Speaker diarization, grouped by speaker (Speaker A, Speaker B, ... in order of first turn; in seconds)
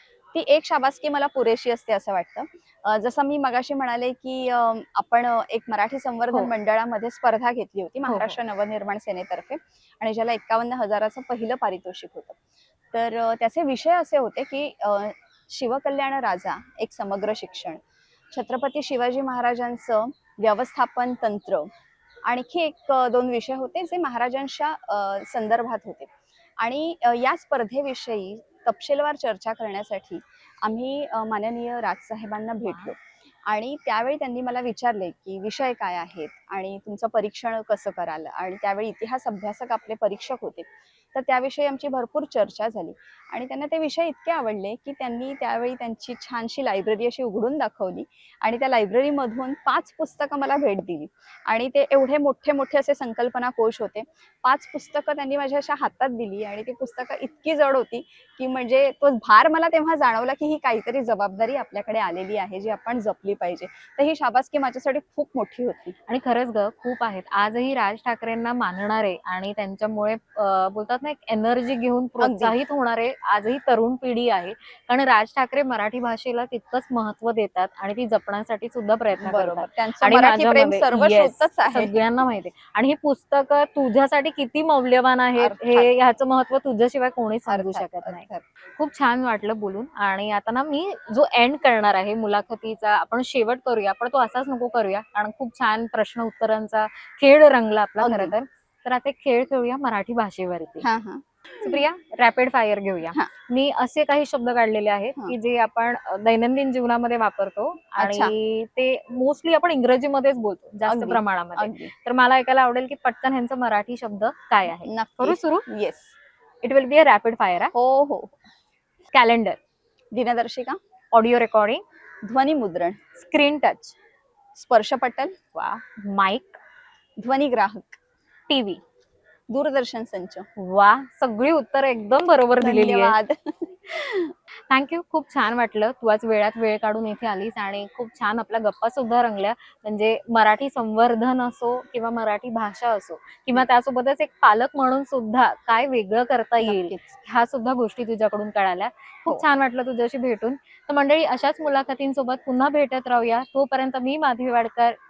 Speaker A: 0.3-12.4, 12.9-17.8, 18.3-21.7, 22.2-26.1, 26.6-65.9, 72.2-72.5, 79.2-82.0, 85.4-85.9, 87.5-88.4, 98.0-98.3, 100.8-101.8, 108.0-108.3, 110.8-111.9, 114.8-116.1, 117.7-118.4, 120.1-120.8, 122.2-123.0, 124.5-125.4, 127.2-128.0, 129.5-130.4, 132.6-134.3, 146.6-147.2
Speaker B: 8.1-8.4, 66.1-88.2, 88.8-100.9, 101.6-115.7, 116.6-117.7, 119.1-119.6, 121.1-121.8, 123.1-124.0, 125.5-126.6, 128.5-128.8, 130.6-133.2, 134.7-155.0